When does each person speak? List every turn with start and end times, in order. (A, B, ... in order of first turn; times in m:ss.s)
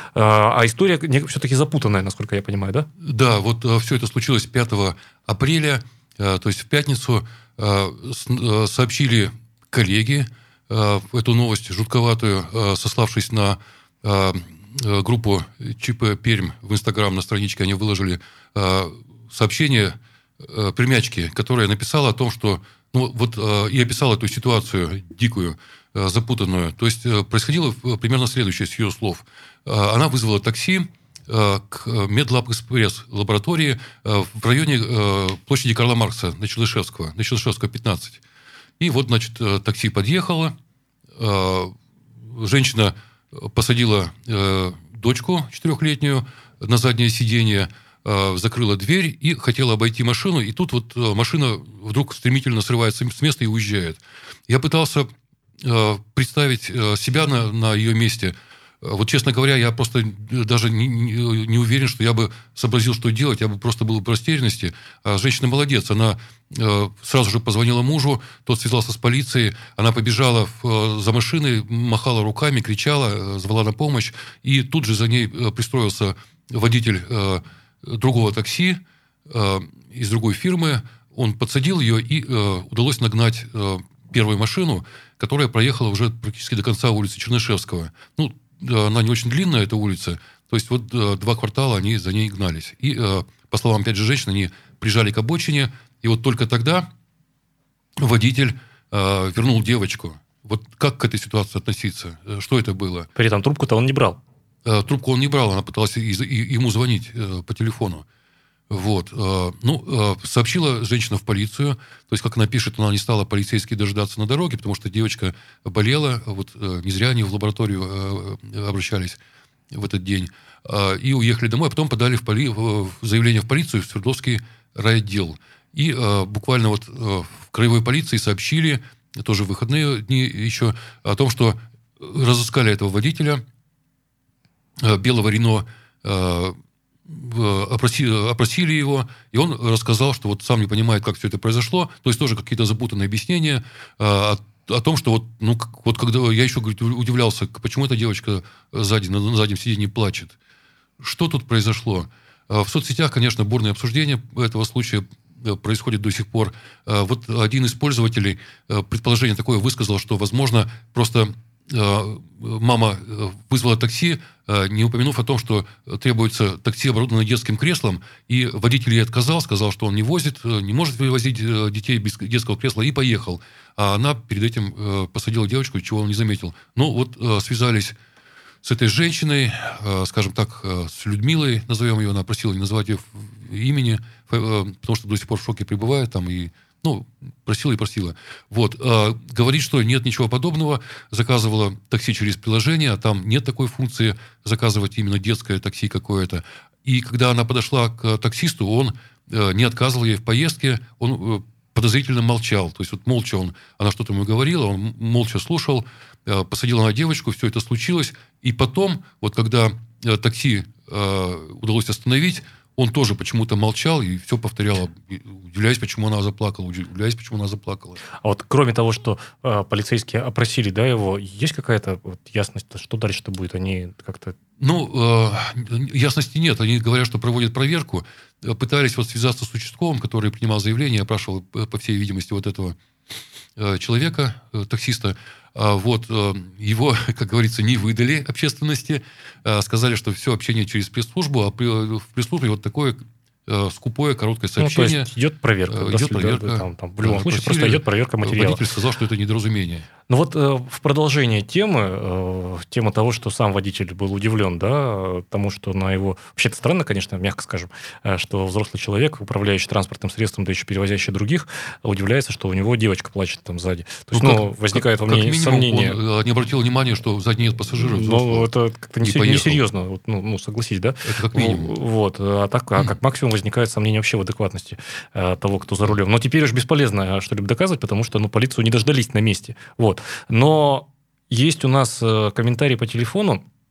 0:00.2-0:02.9 A
0:03.0-0:38.2 B
0:38.8-0:40.6 B
0:41.2-0:41.8 B
0:42.3-1:36.9 B
1:38.0-1:43.1 B
1:43.2-1:44.2 A
1:44.6-1:48.0 B
1:48.7-1:59.2 B
1:59.7-2:13.4 B
2:14.8-2:30.4 B
2:31.0-2:58.0 B
2:58.6-3:38.0 B
3:38.2-3:44.4 A
3:44.6-3:52.8 B
3:53.6-4:05.1 B
4:04.6-4:08.6 A
4:05.7-4:09.9 B
4:10.1-4:26.0 A
4:24.1-4:28.5 B
4:27.8-4:43.4 A
4:29.0-4:29.6 B
4:31.1-4:31.7 B